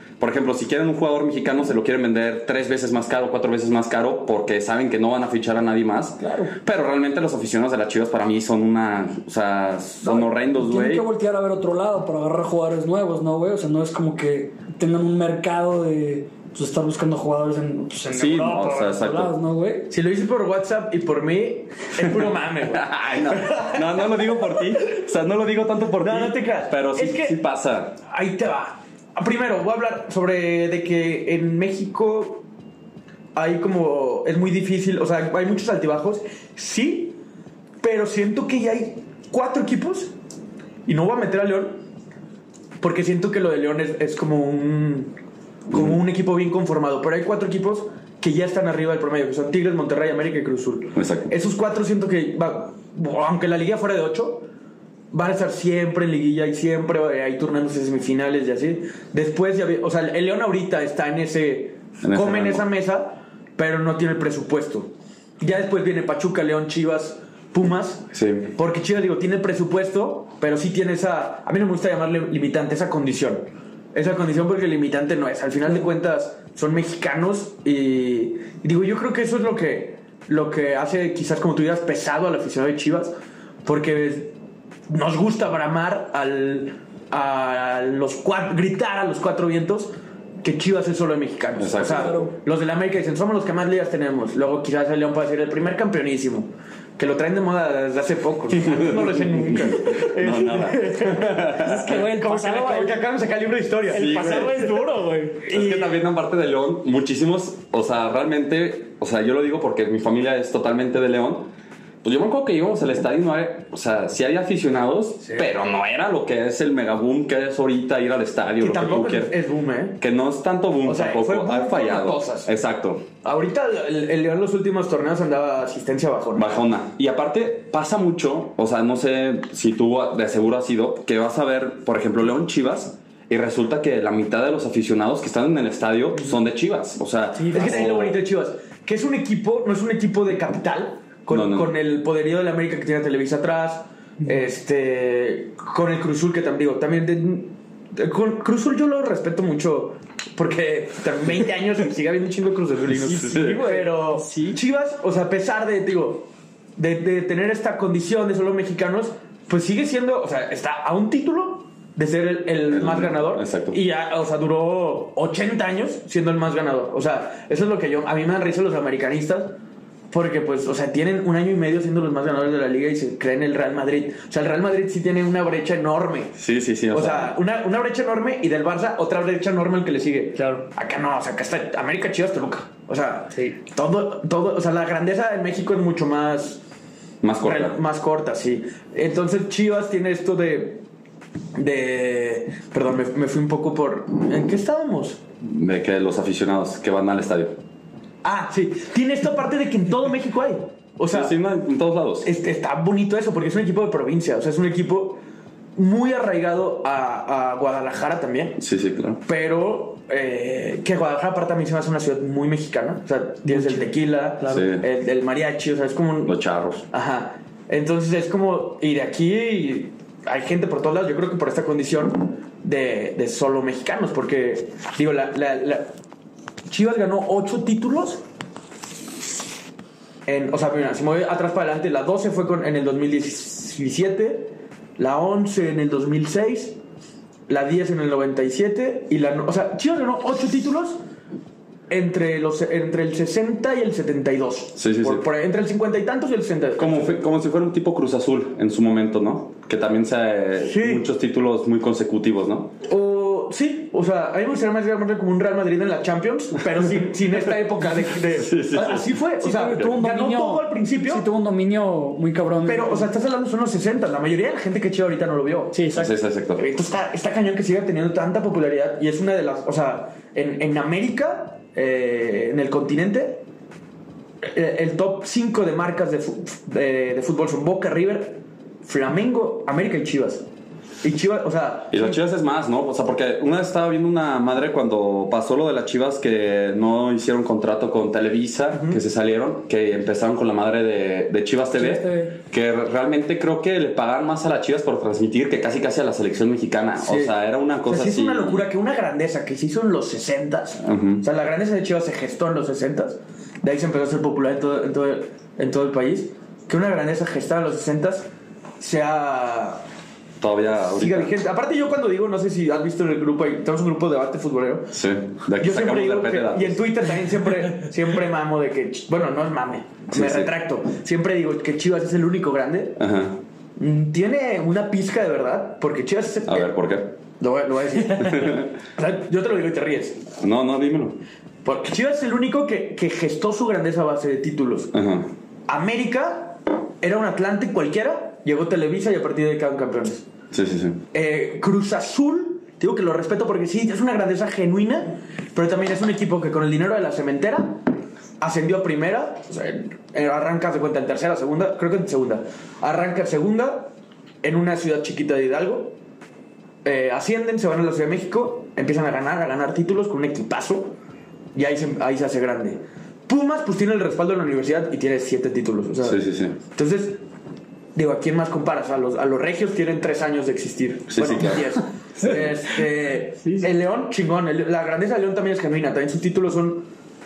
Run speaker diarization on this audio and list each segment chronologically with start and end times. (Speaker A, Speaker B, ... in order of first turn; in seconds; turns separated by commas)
Speaker A: 0.2-11.1, Speaker B: 6.2-6.5, Speaker B: 10.0-19.9, Speaker A: 18.1-19.3, Speaker C: 19.9-24.6, Speaker A: 22.0-28.0, Speaker C: 26.0-27.4, Speaker C: 28.0-32.5, Speaker C: 33.4-37.2, Speaker C: 37.8-40.1, Speaker C: 40.9-41.8, Speaker C: 42.8-45.1, Speaker C: 45.7-54.5, Speaker A: 51.0-51.3, Speaker C: 55.1-83.1, Speaker A: 62.0-62.6, Speaker A: 68.1-68.5, Speaker C: 83.7-84.3, Speaker C: 84.9-106.0, Speaker A: 91.6-92.2, Speaker B: 91.8-92.3, Speaker A: 98.5-102.0, Speaker B: 101.5-103.0, Speaker B: 103.9-105.5, Speaker A: 103.9-104.6, Speaker A: 105.5-111.5, Speaker A: 112.0-119.3, Speaker C: 118.6-120.0, Speaker A: 120.0-123.1, Speaker C: 120.8-122.5, Speaker C: 123.2-126.6, Speaker A: 126.3-138.2, Speaker B: 137.4-137.8, Speaker C: 137.5-169.5, Speaker A: 141.3-141.7, Speaker A: 152.9-153.6, Speaker B: 153.1-154.6, Speaker A: 162.7-163.8, Speaker C: 170.1-176.4, Speaker A: 176.4-177.3, Speaker C: 176.9-186.6, Speaker B: 180.4-180.6, Speaker A: 187.2-187.8, Speaker C: 187.4-190.8, Speaker C: 191.6-195.2, Speaker A: 195.4-197.6, Speaker C: 198.2-201.3, Speaker A: 201.1-202.3, Speaker C: 202.2-205.2, Speaker C: 205.8-208.6, Speaker A: 208.6-209.2, Speaker C: 209.2-216.4, Speaker B: 213.5-213.9, Speaker A: 214.4-214.8, Speaker A: 216.2-216.8, Speaker C: 216.9-225.9, Speaker C: 226.7-228.2, Speaker C: 230.3-236.8, Speaker C: 237.5-241.0, Speaker C: 241.9-247.2, Speaker A: 244.8-245.2, Speaker A: 246.8-252.7, Speaker C: 250.6-251.1, Speaker C: 252.8-261.2, Speaker A: 258.2-259.2, Speaker B: 259.4-263.1, Speaker C: 262.6-265.8, Speaker B: 265.7-266.1, Speaker A: 265.9-266.6, Speaker C: 266.6-273.4, Speaker C: 274.4-280.5, Speaker C: 281.0-282.2, Speaker A: 281.9-298.7, Speaker C: 288.7-289.0, Speaker B: 291.7-292.4, Speaker C: 297.0-297.3, Speaker C: 297.9-309.8, Speaker A: 300.9-301.2, Speaker A: 310.4-311.3, Speaker C: 310.9-314.9, Speaker A: 314.9-316.9, Speaker C: 315.6-323.0, Speaker A: 320.1-320.5, Speaker A: 323.0-323.4, Speaker C: 323.8-326.7, Speaker A: 326.5-327.1, Speaker C: 327.4-330.2, Speaker A: 328.1-328.7, Speaker A: 330.4-331.2, Speaker C: 331.6-334.9, Speaker A: 334.9-335.3, Speaker C: 335.7-340.2, Speaker A: 340.5-341.0, Speaker C: 341.1-347.8, Speaker C: 348.4-353.9, Speaker C: 354.4-355.9, Speaker C: 356.9-360.9, Speaker C: 361.6-367.2, Speaker A: 366.0-366.6, Speaker C: 368.0-376.9, Speaker A: 371.1-372.5, Speaker B: 373.4-373.7